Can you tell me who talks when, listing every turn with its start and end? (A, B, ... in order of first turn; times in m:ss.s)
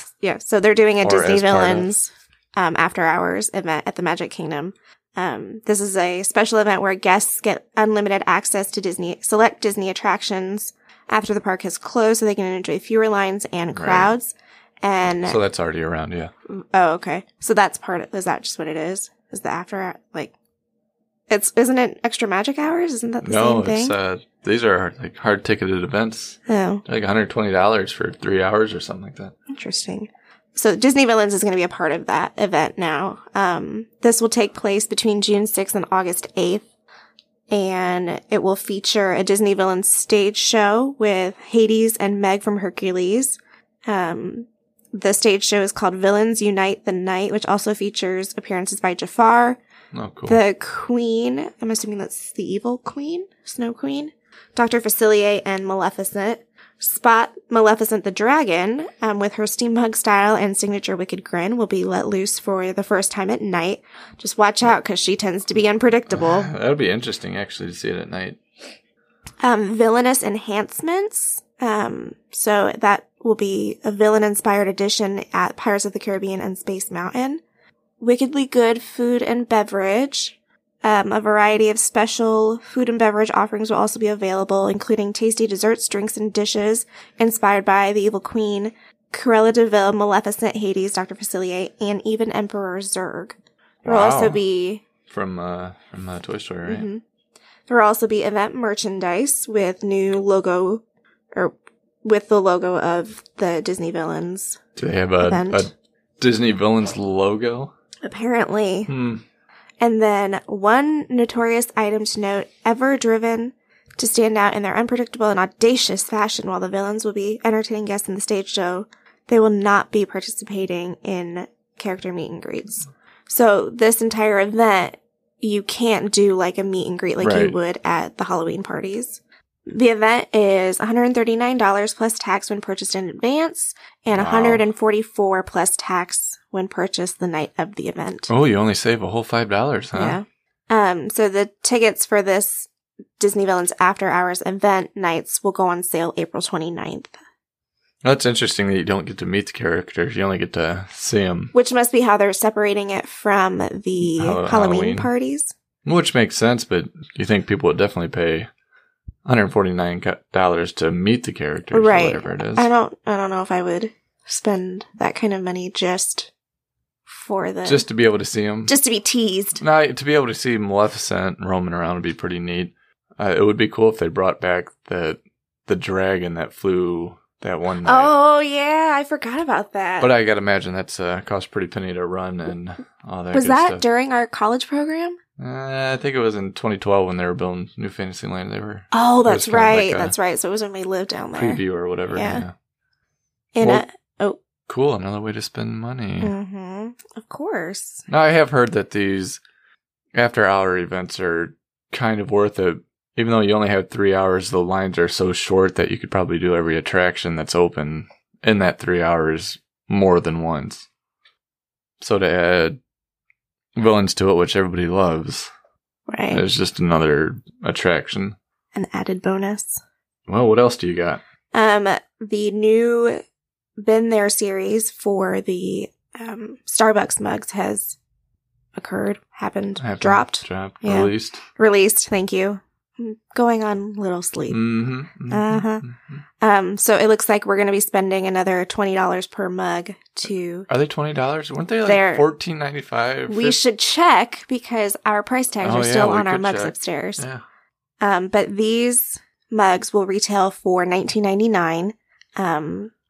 0:00.2-0:15.4 A
0:01.0-0:01.9 B
0:13.7-0:14.1 B
0:15.2-0:16.3 B
0:16.5-0:20.3 A
0:21.3-0:24.0 A
0:23.2-0:29.3 B
0:26.5-0:26.8 A
0:29.5-0:36.6 A
0:37.5-0:49.6 A
0:49.9-0:50.4 B
0:50.3-1:06.5 A
1:06.1-1:08.4 B
1:09.4-1:17.4 A
1:18.0-1:34.8 A
1:33.8-1:34.4 B
1:35.1-1:36.9 B
1:36.6-1:37.0 A
1:37.7-1:40.8 A
1:41.3-1:44.6 A
1:44.8-1:47.7 B
1:45.2-1:45.7 A
1:48.0-1:48.9 A
1:48.9-1:49.2 B
1:49.8-2:18.3 A
2:07.2-2:07.6 B
2:14.1-2:14.6 B
2:18.3-2:20.2 B
2:19.9-2:27.2 A
2:28.0-2:31.5 B
2:31.5-2:35.5 A
2:34.0-2:35.1 B
2:35.8-2:38.5 B
2:39.2-2:42.7 B
2:41.7-2:46.3 A
2:47.1-2:47.9 A
2:47.6-2:48.7 B
2:48.7-2:49.6 A
2:49.6-2:58.1 B
2:57.8-3:00.1 A
3:00.0-3:03.8 B
3:03.3-3:05.2 A
3:05.4-3:10.1 B
3:08.9-3:12.4 A
3:11.3-3:12.5 B
3:13.5-3:14.4 A
3:13.6-3:13.8 B
3:14.7-3:16.3 B
3:16.2-3:18.0 A
3:18.1-3:19.4 B
3:20.1-3:30.9 B
3:32.0-3:32.8 B
3:33.8-3:35.5 B
3:36.1-3:36.4 A
3:36.3-3:38.4 B
3:38.7-3:39.8 A
3:40.3-3:41.2 B
3:41.5-3:43.2 A
3:43.8-3:48.0 A
3:48.8-3:54.7 A
3:49.8-3:51.4 B
3:54.5-3:56.2 B
3:55.2-3:55.8 A
3:56.4-4:00.7 A
4:00.7-4:03.6 B
4:01.8-4:02.2 A
4:03.3-4:07.2 A
4:05.6-4:07.4 B
4:08.0-4:12.9 A